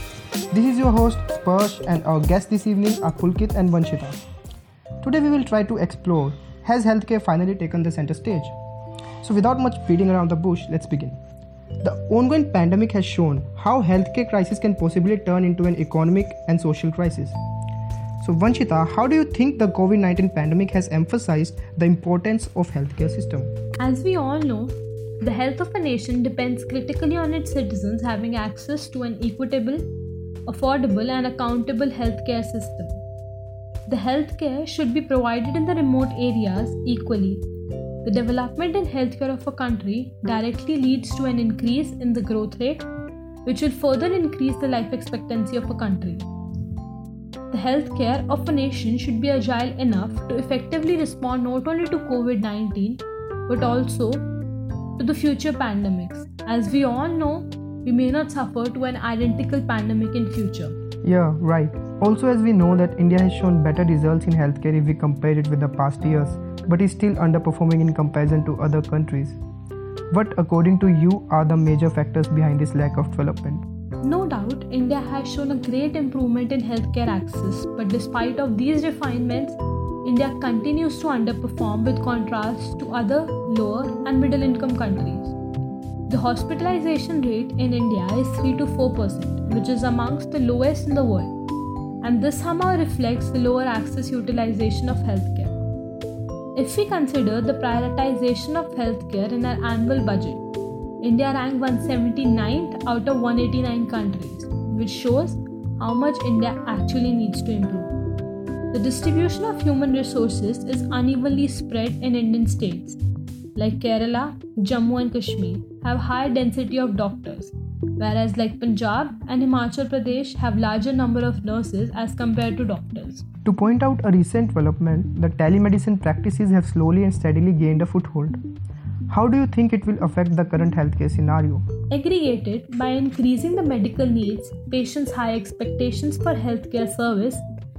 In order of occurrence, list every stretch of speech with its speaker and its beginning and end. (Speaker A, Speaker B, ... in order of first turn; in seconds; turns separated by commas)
Speaker A: 0.5-4.2, Speaker A: 5.0-8.5, Speaker A: 9.2-11.2, Speaker A: 11.8-17.4, Speaker A: 18.2-23.5, Speaker B: 23.8-29.8, Speaker B: 30.5-33.0, Speaker B: 33.9-37.4, Speaker B: 38.0-42.9, Speaker B: 43.4-46.3, Speaker B: 47.5-54.3, Speaker B: 55.0-60.7, Speaker A: 61.0-69.4, Speaker A: 70.1-73.6, Speaker B: 74.0-85.3, Speaker B: 86.1-91.3, Speaker B: 92.0-95.5, Speaker B: 96.5-100.4, Speaker B: 101.0-107.9, Speaker B: 108.7-113.0, Speaker B: 113.5-123.2, Speaker A: 123.5-128.4, Speaker A: 129.1-131.7, Speaker B: 131.9-137.4